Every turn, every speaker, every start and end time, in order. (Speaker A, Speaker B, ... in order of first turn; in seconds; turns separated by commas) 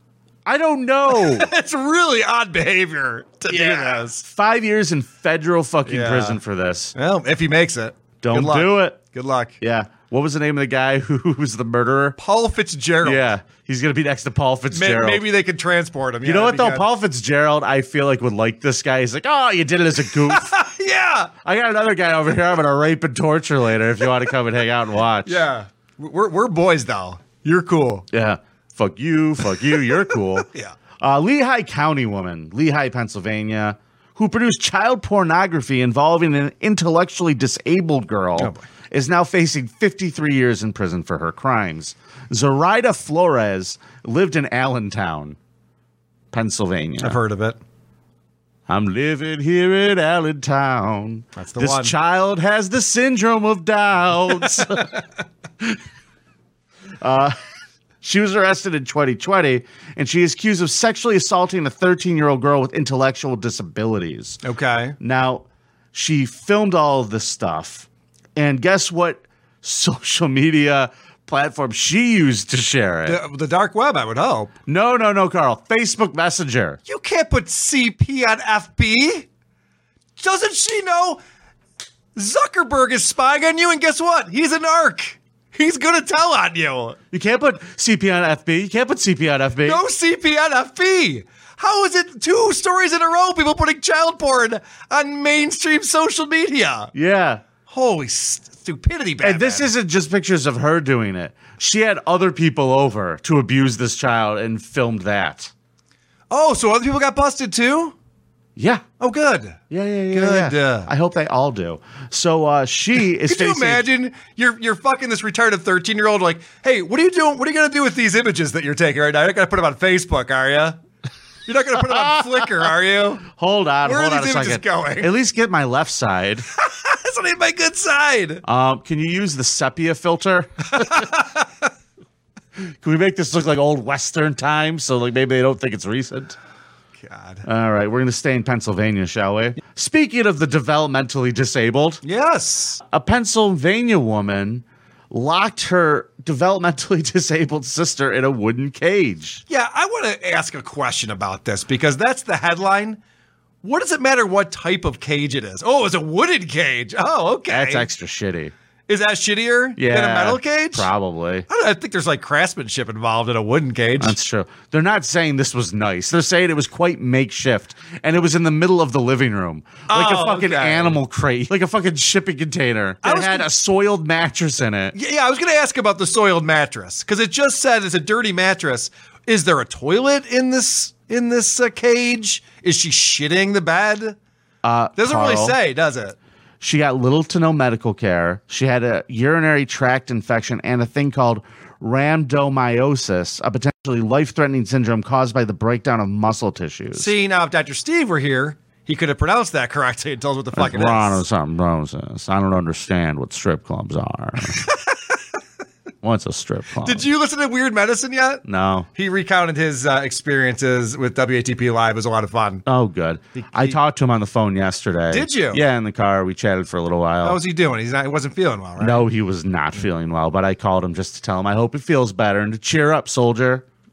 Speaker A: 0.5-1.5, Speaker B: 1.1-4.2, Speaker A: 3.5-6.9, Speaker B: 5.9-6.4, Speaker B: 6.9-9.6, Speaker A: 8.2-9.0, Speaker A: 9.6-12.2, Speaker B: 12.2-13.3, Speaker A: 13.0-15.2, Speaker B: 14.7-16.9, Speaker A: 16.2-20.5, Speaker B: 20.3-21.3, Speaker A: 21.4-25.4, Speaker B: 25.2-28.1, Speaker A: 28.1-30.5, Speaker A: 31.0-45.4, Speaker B: 38.4-38.6, Speaker A: 46.3-47.2, Speaker B: 47.0-47.6, Speaker A: 48.7-54.9, Speaker B: 51.4-51.9, Speaker B: 54.4-54.9, Speaker A: 57.0-57.4, Speaker A: 58.0-64.4, Speaker B: 64.4-64.9, Speaker A: 65.0-73.2, Speaker B: 73.0-74.5, Speaker A: 74.7-76.8, Speaker B: 76.9-79.3, Speaker B: 80.2-81.2, Speaker B: 82.2-87.0, Speaker A: 87.1-89.8, Speaker B: 89.6-96.9, Speaker A: 96.9-97.4, Speaker B: 97.7-99.7, Speaker A: 99.2-105.5, Speaker B: 106.3-107.9, Speaker A: 108.5-108.8, Speaker B: 109.0-109.6, Speaker A: 109.7-113.9, Speaker B: 110.1-110.9, Speaker B: 113.2-120.8, Speaker B: 121.5-123.3, Speaker A: 121.8-122.5, Speaker A: 123.3-126.5, Speaker B: 123.8-125.1, Speaker B: 126.6-128.4, Speaker A: 128.4-131.0, Speaker B: 130.8-131.4, Speaker A: 132.8-136.4, Speaker B: 137.0-137.4, Speaker A: 137.4-142.0, Speaker B: 142.0-142.8, Speaker A: 142.9-149.4, Speaker B: 149.5-153.0, Speaker B: 153.6-157.9, Speaker A: 157.5-158.5, Speaker B: 158.9-160.9, Speaker A: 159.8-161.5, Speaker B: 161.5-164.2, Speaker A: 164.0-174.9, Speaker B: 169.9-171.0, Speaker B: 173.0-173.5, Speaker B: 174.9-184.2, Speaker A: 184.6-185.6, Speaker B: 184.9-186.2, Speaker A: 186.6-197.1, Speaker B: 196.9-201.2, Speaker A: 200.5-204.6, Speaker A: 206.0-207.1, Speaker B: 206.8-208.4, Speaker A: 208.4-208.9, Speaker B: 208.9-212.6, Speaker A: 212.7-217.4, Speaker B: 213.3-213.8, Speaker B: 215.1-215.6, Speaker B: 217.2-219.1, Speaker A: 218.8-223.6